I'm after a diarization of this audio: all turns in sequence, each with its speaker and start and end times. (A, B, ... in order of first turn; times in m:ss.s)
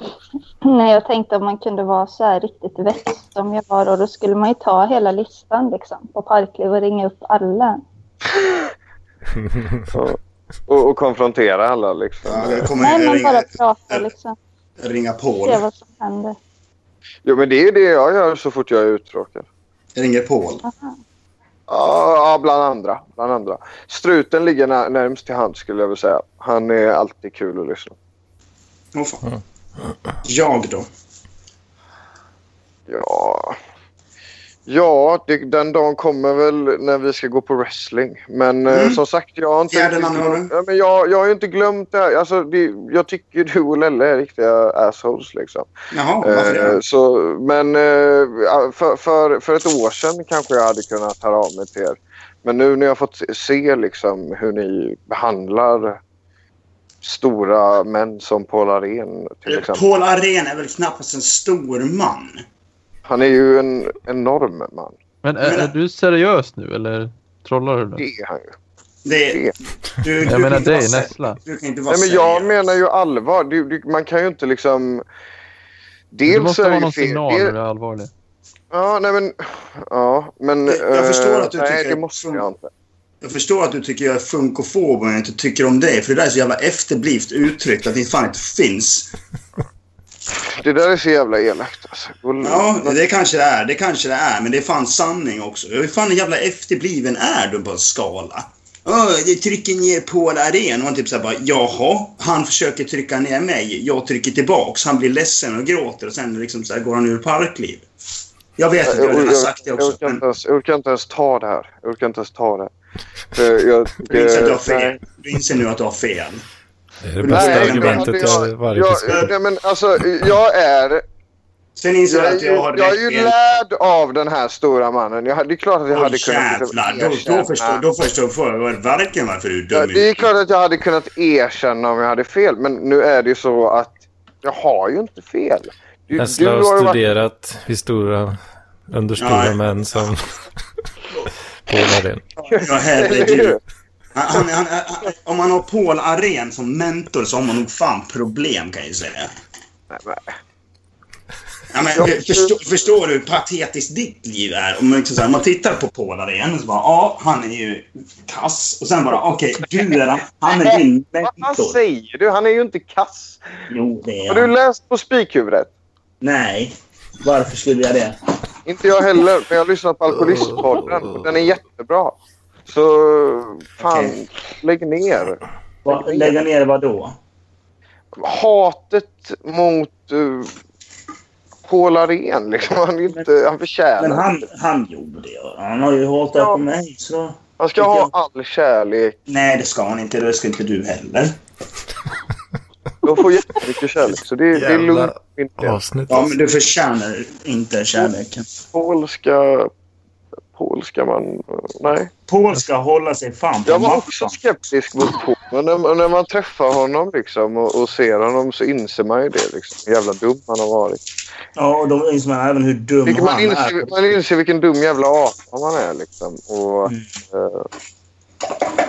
0:00.6-0:07.8 A
0:09.9-0:12.7 B
0:12.2-0:14.0 C
0:12.8-0:14.4 A
0:14.8-0:15.6 C
0:15.4-0:16.4 A
0:17.2-0:19.5 B
0:20.0-0:20.6 C
0:20.6-0:20.9 A
0:21.7-0:28.0 B
0:28.9-0:29.2 C
0:30.2-0:30.9 C
0:32.9-0:33.6 B
0:34.7-0:45.7 B
0:38.7-0:39.0 C
0:39.7-0:40.5 C
0:45.9-0:46.8 C
0:46.2-0:56.0 B
0:57.0-0:59.8 B
0:59.5-1:02.4 C
1:03.1-1:05.0 B
1:05.2-1:08.0 D
1:05.4-1:05.7 C
1:08.0-1:08.6 B
1:09.0-1:12.5 C
1:10.2-1:11.4 D
1:11.9-1:15.0 B
1:16.1-1:17.6 B
1:16.3-1:18.1 D
1:18.7-1:22.7 B
1:20.7-1:22.4 C
1:23.2-1:29.1 C
1:30.4-1:33.0 B
1:32.4-1:47.9 C
1:48.6-1:50.2 C
1:48.8-1:52.7 B
1:53.3-1:54.9 B
1:54.1-1:56.4 C
1:57.0-1:59.3 E
1:57.2-1:58.4 C
1:57.3-2:01.0 B
2:01.8-2:03.3 C
2:02.1-2:07.8 B
2:05.9-2:10.3 C
2:09.7-2:17.0 B
2:16.2-2:20.4 E
2:19.2-2:20.1 C
2:21.7-2:22.3 E
2:22.4-2:23.6 B
2:22.5-2:23.6 C
2:24.2-2:29.3 C
2:29.9-2:30.3 B
2:31.7-2:41.8 C
2:32.0-2:32.5 B
2:40.5-2:43.6 B
2:43.7-2:44.5 C
2:44.3-2:45.7 B
2:46.2-2:48.2 C
2:48.7-2:52.2 B
2:52.7-2:56.4 B
2:53.8-2:54.2 C
2:55.8-2:57.2 C
2:58.2-3:00.6 B
3:01.7-3:04.3 B
3:04.0-3:08.1 C
3:06.3-3:06.6 B
3:07.6-3:09.2 B
3:09.3-3:11.3 C
3:13.0-3:15.8 B
3:14.6-3:16.3 E
3:16.1-3:18.5 C
3:18.7-3:19.7 B
3:20.5-3:22.1 B
3:22.3-3:24.4 C
3:23.7-3:31.0 B
3:31.6-3:34.2 C
3:33.0-3:37.7 B